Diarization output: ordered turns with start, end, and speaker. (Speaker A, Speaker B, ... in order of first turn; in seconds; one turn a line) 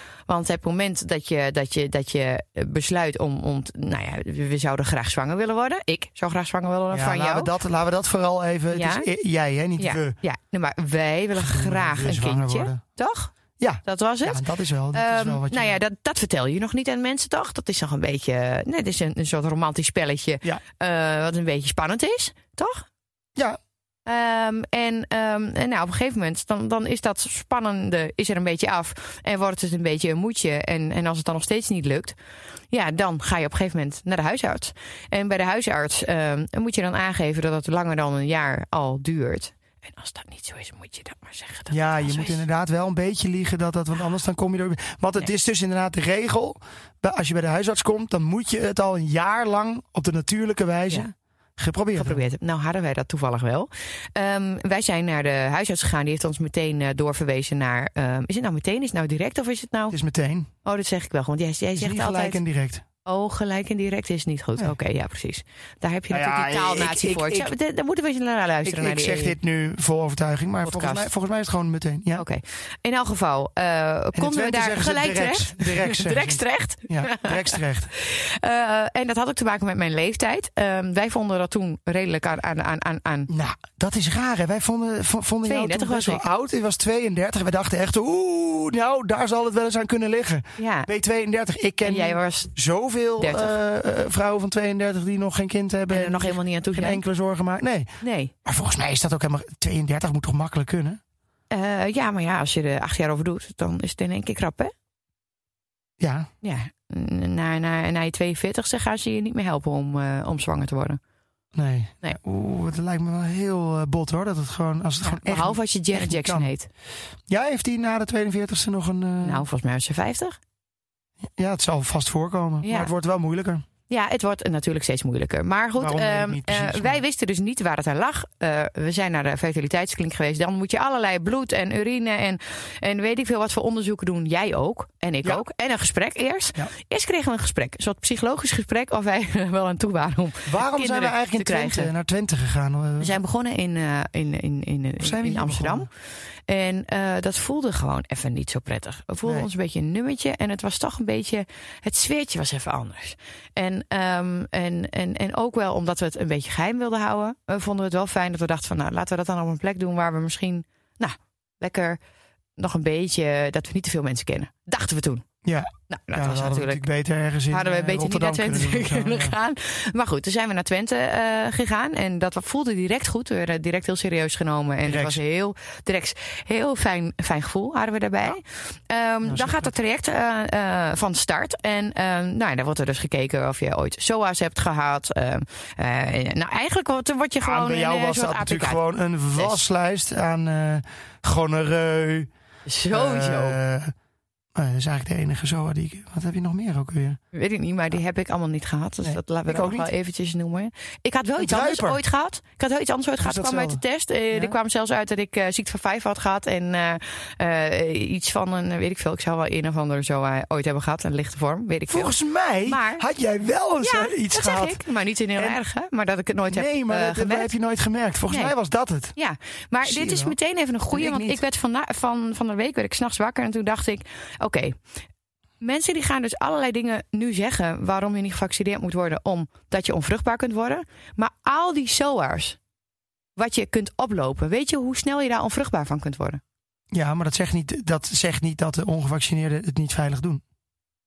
Speaker A: 0.3-7.5
Speaker B: 6.9-10.2
Speaker A: 8.7-9.1
Speaker A: 9.8-14.4
Speaker B: 11.4-12.8
Speaker B: 13.6-15.7
Speaker A: 14.9-22.8
Speaker A: 24.1-32.1
Speaker A: 32.7-42.4
Speaker B: 41.7-52.2
Speaker A: 52.0-60.0
Speaker B: 59.9-60.5
Speaker A: 60.6-62.4
Speaker B: 61.8-62.8
Speaker A: 63.0-69.3
Speaker B: 66.1-67.5
Speaker B: 68.6-72.2
Speaker A: 70.6-71.1
Speaker A: 72.1-83.3
Speaker B: 74.2-77.9
Speaker B: 83.3-97.9
Speaker A: 85.4-86.2
Speaker A: 90.6-90.9
Speaker A: 91.8-92.5
Speaker A: 93.2-93.5
Speaker A: 95.9-97.0
Speaker A: 98.0-98.3
Speaker B: 98.4-101.0
Speaker A: 101.5-104.7
Speaker B: 106.0-106.3
Speaker A: 106.4-111.0
Speaker B: 111.5-116.5
Speaker A: 115.0-116.7
Speaker B: 117.3-119.4
Speaker A: 119.2-120.4
Speaker B: 121.3-123.6
Speaker A: 122.6-122.9
Speaker A: 123.9-141.9
Speaker B: 125.8-127.0
Speaker B: 140.5-143.1
Speaker A: 143.0-145.9
Speaker B: 145.0-145.9
Speaker A: 146.5-162.0
Speaker A: 162.6-165.2
Speaker B: 165.4-169.3
Speaker A: 165.9-166.8
Speaker A: 167.5-188.8
Speaker B: 174.8-175.2
Speaker B: 179.2-179.7
Speaker B: 187.4-192.3
Speaker A: 192.7-193.6
Speaker B: 192.9-193.9
Speaker B: 194.5-197.2
Speaker A: 197.3-213.0
Speaker B: 199.0-199.9
Speaker B: 201.4-202.0
Speaker B: 203.2-203.8
Speaker B: 211.9-214.8
Speaker A: 213.8-217.5
Speaker B: 216.5-219.1
Speaker A: 218.3-218.5
Speaker A: 219.2-224.8
Speaker B: 219.8-220.3
Speaker B: 220.9-221.4
Speaker A: 225.6-232.6
Speaker A: 233.4-236.4
Speaker B: 236.9-240.4